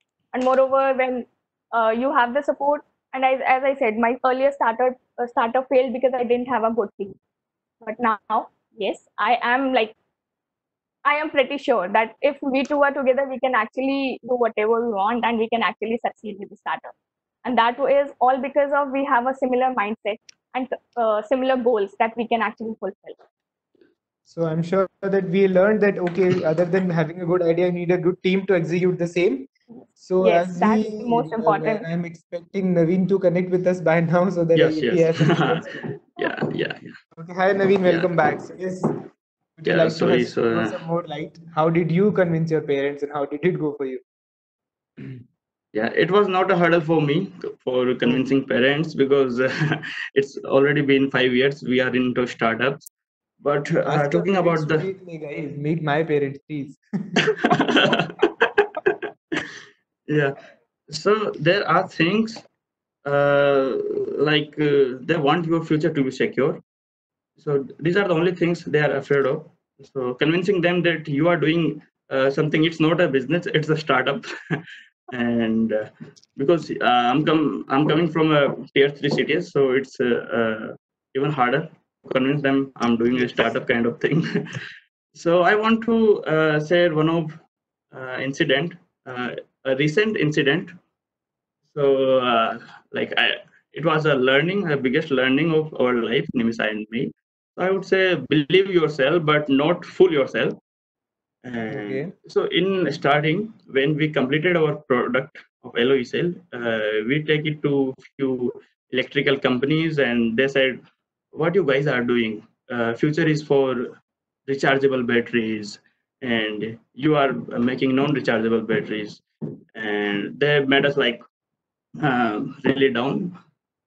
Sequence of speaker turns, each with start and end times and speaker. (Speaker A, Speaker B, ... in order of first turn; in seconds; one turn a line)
Speaker A: 0.3-7.2
Speaker A: 7.8-10.0
Speaker A: 11.1-16.9
Speaker A: 17.4-23.2
Speaker B: 24.3-35.9
Speaker A: 30.2-31.9
Speaker C: 34.5-36.9
Speaker B: 37.2-38.9
Speaker C: 37.9-38.1
Speaker B: 39.6-44.0
Speaker C: 39.7-40.8
Speaker C: 45.7-52.9
Speaker C: 53.4-54.9
Speaker B: 53.9-57.4
Speaker C: 57.3-59.5
Speaker C: 60.1-60.4
Speaker C: 60.9-62.5
Speaker C: 63.0-66.6
Speaker C: 67.4-84.6
Speaker C: 85.2-87.4
Speaker C: 87.9-90.7
Speaker C: 91.7-100.6
Speaker C: 101.4-110.8
Speaker B: 101.7-102.1
Speaker C: 111.3-114.0
Speaker C: 114.5-119.2
Speaker C: 119.8-121.2
Speaker C: 122.0-123.3